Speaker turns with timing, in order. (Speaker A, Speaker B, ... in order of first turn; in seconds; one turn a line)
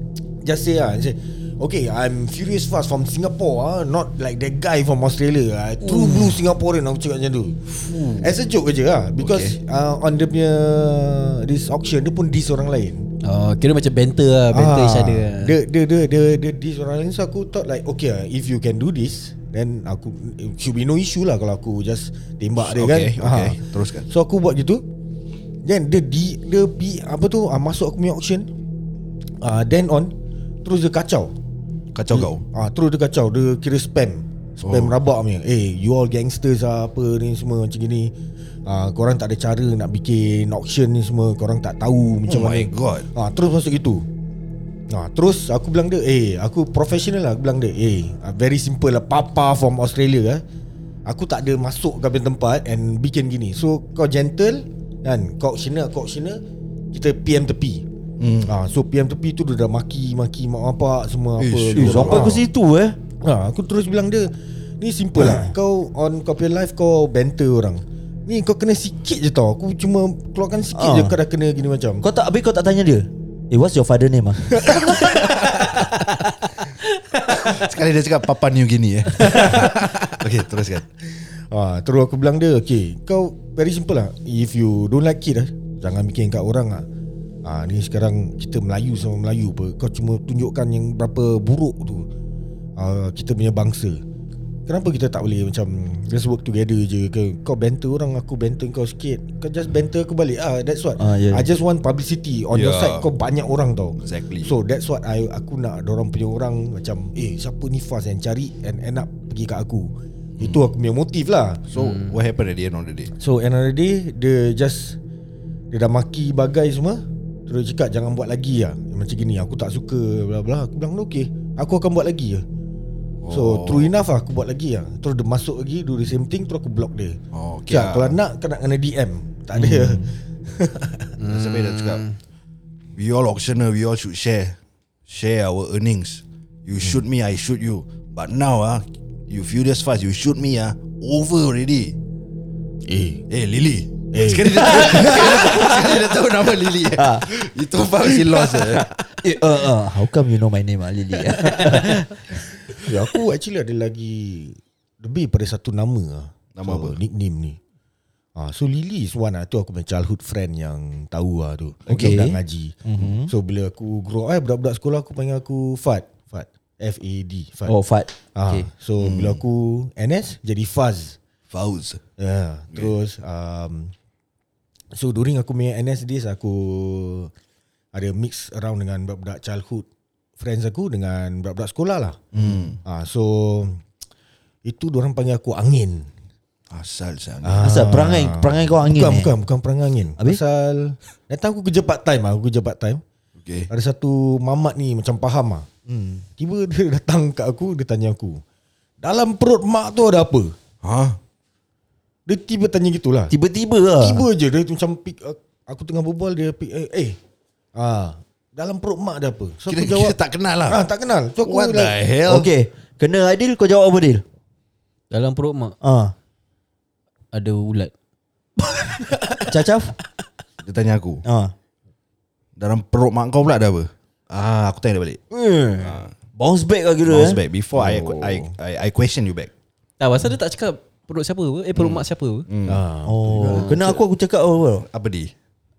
Speaker A: 0.4-13.1
Speaker B: 5.8-6.3
Speaker B: 7.7-8.3
Speaker B: 9.2-9.5
Speaker C: 13.2-15.6
Speaker A: 14.5-23.6
Speaker B: 22.6-24.1
Speaker A: 24.1-24.8
Speaker A: 25.6-28.5
Speaker A: 29.4-30.1
Speaker A: 30.6-31.3
Speaker B: 31.9-32.4
Speaker A: 32.1-38.1
Speaker B: 34.6-34.9
Speaker A: 38.6-44.0
Speaker B: 42.3-43.1
Speaker A: 44.9-50.4
Speaker A: 51.0-56.4
Speaker A: 56.9-57.8
Speaker B: 58.2-58.5
Speaker A: 58.4-62.4
Speaker B: 61.4-62.4
Speaker D: 61.7-63.0
Speaker A: 63.2-72.0
Speaker D: 65.2-65.5
Speaker D: 70.7-71.2
Speaker D: 72.0-75.4
Speaker B: 77.4-80.8
Speaker A: 81.5-86.8
Speaker A: 87.4-92.1
Speaker A: 92.8-94.0
Speaker A: 94.7-111.6
Speaker D: 101.0-101.5
Speaker B: 102.5-103.0
Speaker B: 104.0-104.5
Speaker B: 110.4-110.7
Speaker B: 111.7-113.1
Speaker C: 111.7-112.2
Speaker A: 113.2-115.0
Speaker A: 115.7-122.4
Speaker B: 123.2-123.9
Speaker A: 123.3-131.1
Speaker B: 127.3-128.2
Speaker C: 131.2-132.2
Speaker B: 131.3-132.0
Speaker B: 132.9-141.9
Speaker A: 142.9-143.2
Speaker B: 143.3-148.9
Speaker A: 144.1-145.5
Speaker D: 144.8-145.9
Speaker D: 146.9-147.2
Speaker D: 148.3-152.1
Speaker A: 152.8-157.6
Speaker B: 156.6-156.9
Speaker A: 158.3-167.7
Speaker B: 161.9-162.2
Speaker D: 161.9-163.3
Speaker D: 167.7-168.7
Speaker A: 168.3-171.2
Speaker B: 169.0-169.4
Speaker B: 171.5-172.0
Speaker A: 172.2-173.9
Speaker A: 174.9-177.3
Speaker A: 177.9-179.8
Speaker A: 180.4-183.8
Speaker B: 182.3-182.8
Speaker A: 184.6-186.1
Speaker B: 186.7-188.0
Speaker A: 187.4-193.0
Speaker D: 187.6-189.3
Speaker B: 193.4-193.7
Speaker A: 193.7-195.7
Speaker D: 195.9-196.2
Speaker A: 196.4-198.4
Speaker A: 199.0-200.5
Speaker B: 200.8-201.2
Speaker A: 202.3-203.3
Speaker D: 203.3-204.2
Speaker A: 204.0-207.2
Speaker A: 207.7-210.2
Speaker B: 209.7-210.8
Speaker A: 210.7-212.0
Speaker B: 211.4-212.5
Speaker D: 212.2-214.2
Speaker C: 215.1-215.8
Speaker D: 215.8-216.1
Speaker C: 217.3-217.9
Speaker C: 218.6-219.5
Speaker D: 219.5-219.9
Speaker B: 220.6-221.2
Speaker D: 221.2-221.5
Speaker B: 222.6-225.2
Speaker D: 225.3-227.4
Speaker B: 225.8-226.1
Speaker B: 227.1-229.5
Speaker A: 227.7-228.5
Speaker C: 230.0-232.4
Speaker B: 231.7-232.8
Speaker A: 232.7-233.7
Speaker D: 233.0-234.8
Speaker C: 233.4-233.8
Speaker B: 233.5-234.0
Speaker B: 234.9-235.3